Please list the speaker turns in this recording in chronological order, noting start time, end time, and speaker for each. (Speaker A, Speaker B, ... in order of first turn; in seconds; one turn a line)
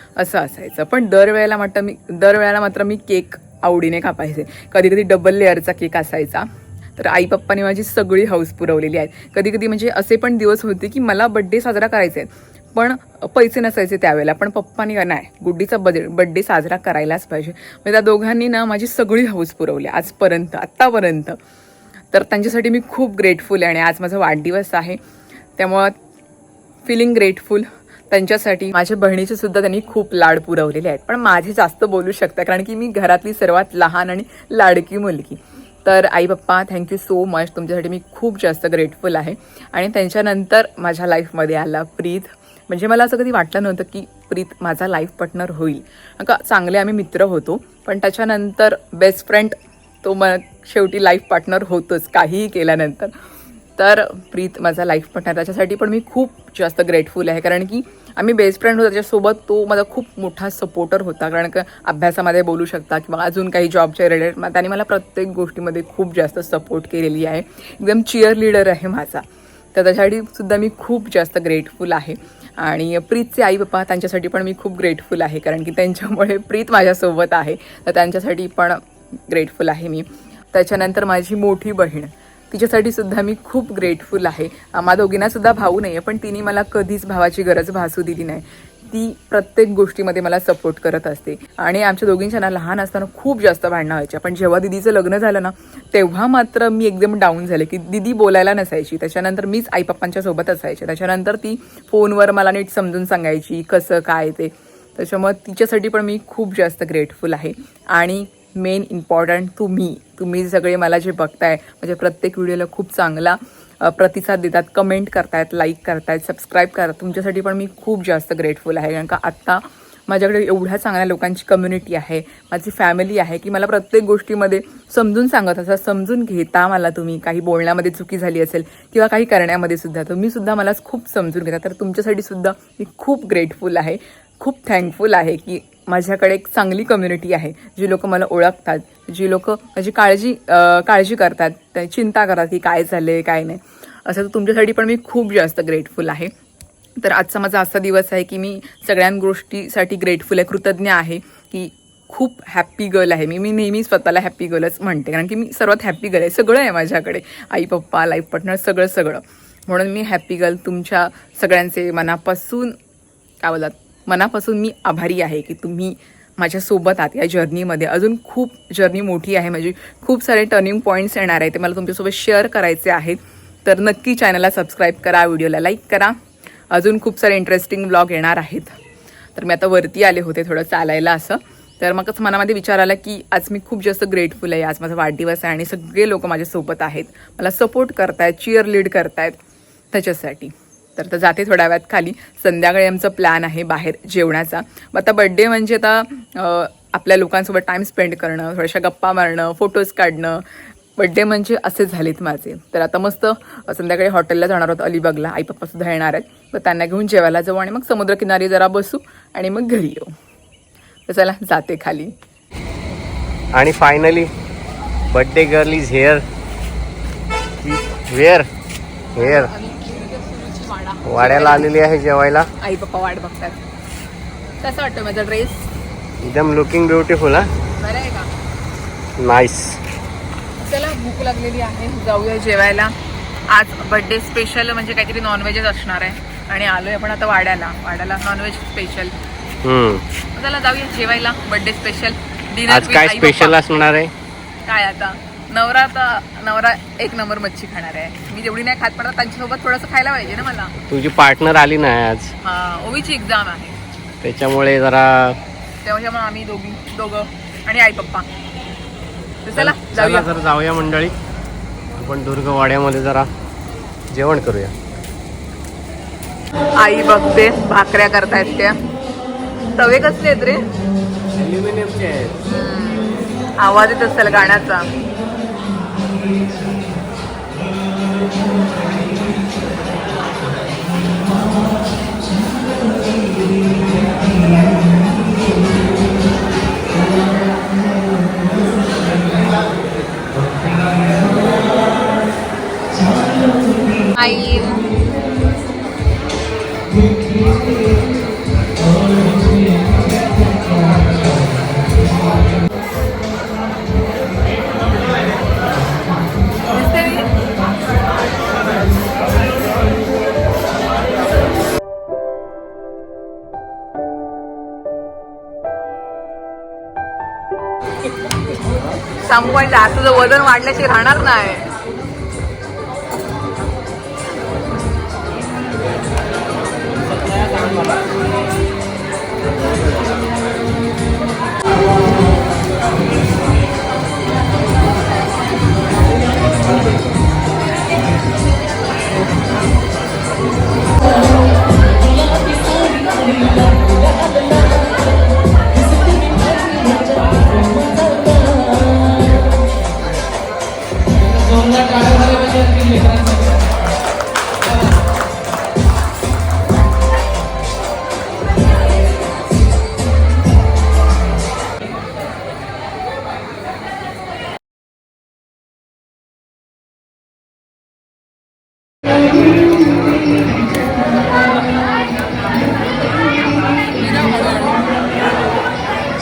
Speaker A: 0.2-6.5
Speaker A: 7.0-21.4
Speaker A: 22.1-25.0
Speaker A: 25.6-25.9
Speaker A: 26.9-53.1
Speaker A: 53.8-146.3
Speaker A: 147.0-162.8
Speaker A: 163.4-176.2
Speaker A: 176.7-178.7
Speaker A: 179.3-189.4
Speaker A: 189.9-200.4
Speaker A: 201.0-210.1
Speaker A: 211.1-212.1
Speaker B: 213.5-214.3
Speaker B: 215.1-216.2
Speaker B: 217.6-218.5
Speaker B: 219.2-219.5
Speaker A: 219.2-221.7
Speaker B: 221.0-222.5
Speaker A: 222.6-223.6
Speaker A: 224.6-225.7
Speaker B: 226.2-227.5
Speaker A: 227.8-228.3
Speaker B: 229.2-229.8
Speaker A: 230.6-232.9
Speaker A: 233.5-239.1
Speaker B: 239.6-240.1
Speaker A: 240.3-243.6
Speaker B: 242.7-244.1
Speaker A: 244.7-250.8
Speaker B: 250.9-252.3
Speaker A: 252.4-253.8
Speaker B: 254.2-255.4
Speaker A: 255.8-258.3
Speaker A: 259.5-260.3
Speaker B: 259.6-261.1
Speaker B: 262.0-263.3
Speaker B: 264.1-264.7
Speaker A: 266.8-268.8
Speaker A: 269.8-270.7
Speaker B: 271.4-272.4
Speaker A: 272.4-274.9
Speaker A: 294.1-294.9
Speaker A: 306.7-307.4
Speaker A: 319.2-321.7
Speaker B: 327.1-327.8
Speaker A: 374.0-374.9